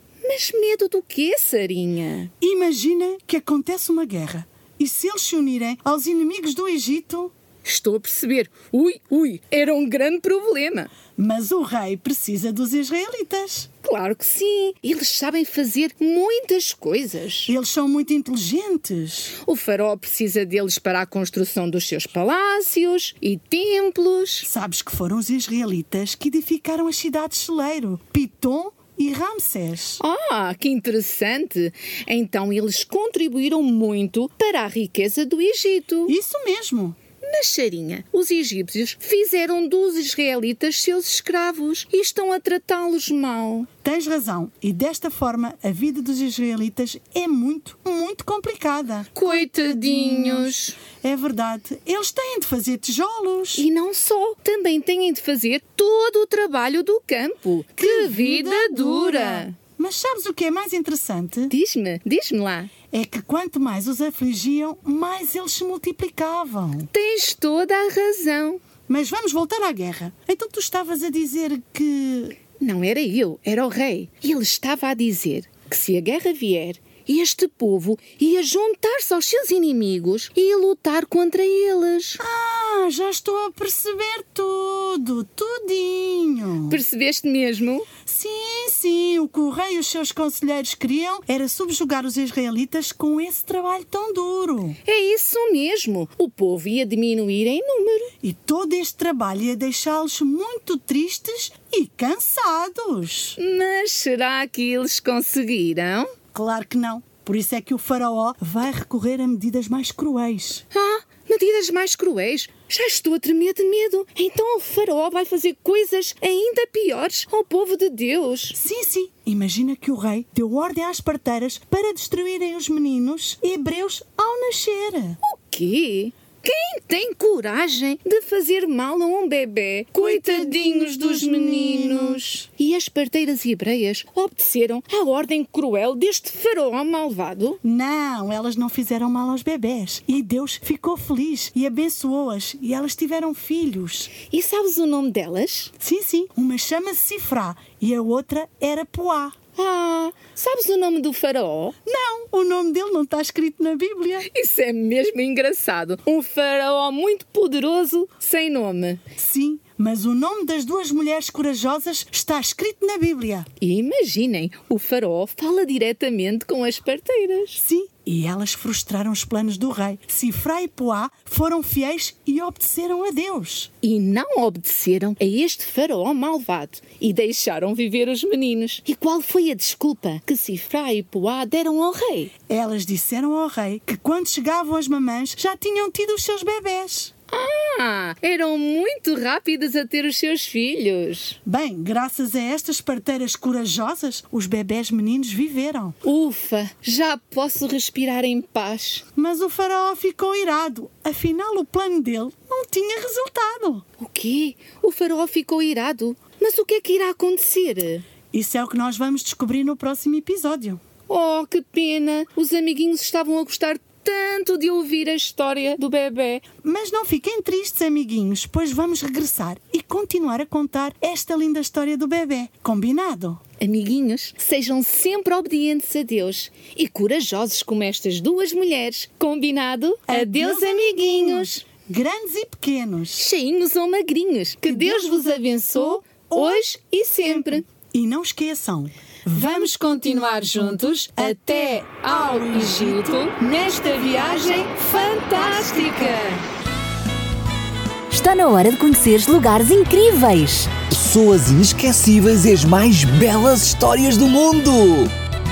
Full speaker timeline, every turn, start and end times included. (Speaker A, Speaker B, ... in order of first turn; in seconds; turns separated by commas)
Speaker A: 0.2-2.3, Speaker B: 2.4-7.3, Speaker A: 7.6-10.9, Speaker B: 11.2-13.7, Speaker A: 13.8-17.5, Speaker B: 17.4-19.3, Speaker A: 19.4-24.5, Speaker B: 24.4-30.0, Speaker A: 30.0-36.1, Speaker B: 36.0-37.0, Speaker A: 37.2-43.7, Speaker B: 43.8-53.7, Speaker A: 49.1-50.8, Speaker A: 53.5-59.5, Speaker B: 57.8-61.5, Speaker A: 61.5-62.7, Speaker B: 62.9-66.9, Speaker A: 66.9-68.6, Speaker B: 68.9-72.3, Speaker A: 72.6-82.2, Speaker B: 82.2-86.8, Speaker A: 86.7-87.9, Speaker B: 88.0-94.8, Speaker A: 94.8-98.1, Speaker B: 98.2-103.4, Speaker A: 103.4-106.1, Speaker B: 106.3-110.6, Speaker A: 110.7-118.6, Speaker B: 118.5-125.2, Speaker A: 125.2-137.6, Speaker B: 129.9-132.3, Speaker B: 137.6-144.1, Speaker A: 144.2-145.7, Speaker B: 145.8-149.3, Speaker A: 149.6-151.7, Speaker B: 151.8-154.3, Speaker A: 154.2-159.0, Speaker B: 159.2-163.5, Speaker A: 163.6-167.6, Speaker B: 167.6-173.7, Speaker A: 173.8-182.3, Speaker B: 182.5-187.1, Speaker A: 187.3-191.4, Speaker B: 191.4-195.9, Speaker A: 196.0-199.0, Speaker B: 199.2-203.8, Speaker A: 204.0-208.1, Speaker B: 208.3-210.8, Speaker A: 211.1-216.4, Speaker B: 216.6-223.4, Speaker A: 223.6-231.6, Speaker B: 230.1-233.2, Speaker A: 233.2-237.6, Speaker B: 234.6-235.3, Speaker B: 236.0-236.6, Speaker B: 237.2-239.7, Speaker A: 239.3-246.4, Speaker B: 241.2-243.3, Speaker C: 248.1-250.7, Speaker D: 250.9-255.1